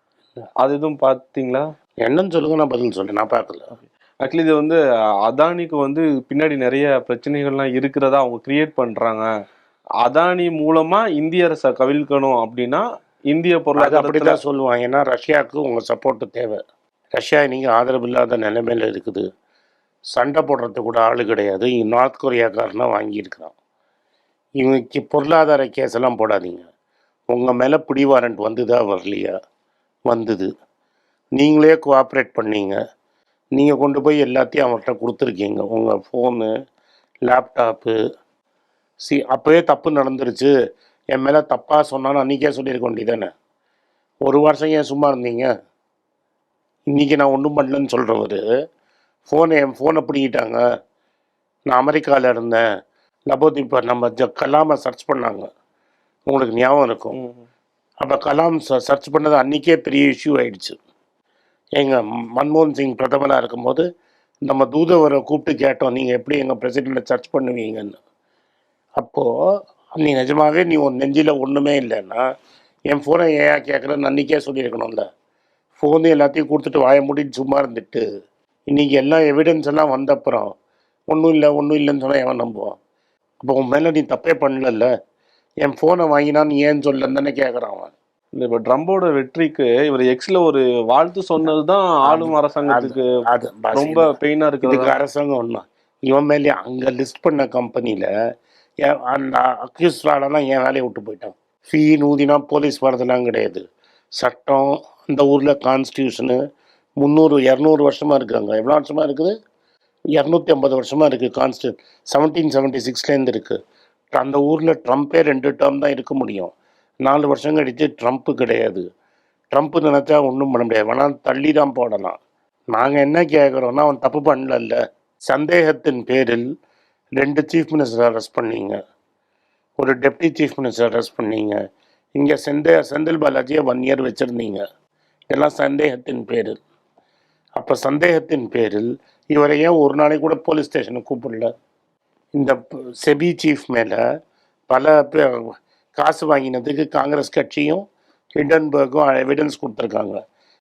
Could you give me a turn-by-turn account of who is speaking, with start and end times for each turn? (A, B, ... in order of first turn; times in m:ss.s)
0:00.6-0:01.6 A
0:02.0-0:03.7 B
0:04.2-0:09.3 A
0:10.0-0:14.4 A
0:13.8-0:16.6 B
0:17.2-0:19.2 B
0:20.1-0:23.5 B
0:24.6-0:26.7 B
0:27.3-0:29.3 B
0:30.1-0:30.5 B
0:31.4-0:32.8 B
0:33.6-0:36.5 B
0:37.3-0:38.0 B
0:39.0-0:40.5 B
0:41.1-0:43.3 B
0:44.3-0:45.5 B
0:46.9-0:48.4 B
0:49.3-0:50.6 B
0:51.7-0:52.6 B
0:53.3-0:55.5 B
0:56.3-0:57.2 B
0:57.1-0:57.5 A
0:58.0-1:00.8 B
1:01.8-1:03.8 B
1:04.4-1:08.0 B
1:09.0-1:09.3 B
1:10.0-1:12.2 B
1:12.9-1:15.0 B
1:15.8-1:18.0 B
1:18.7-1:20.5 B
1:21.1-1:22.7 B
1:23.4-1:24.9 B
1:25.6-1:27.9 B
1:28.4-1:33.0 A
1:32.1-1:34.1 B
1:33.8-1:35.0 A
1:34.6-1:38.1 B
1:38.8-1:43.6 B
1:44.2-1:46.4 B
1:47.0-1:49.3 B
1:50.2-1:53.6 B
1:54.1-1:56.5 B
1:57.0-1:58.8 B
1:59.5-2:02.2 B
2:02.7-2:04.8 B
2:05.3-2:06.4 B
2:07.2-2:08.8 B
2:09.8-2:11.6 B
2:12.2-2:14.6 B
2:15.3-2:16.6 B
2:17.6-2:21.5 B
2:22.4-2:24.0 B
2:24.7-2:25.4 B
2:26.0-2:27.8 B
2:28.4-2:30.2 B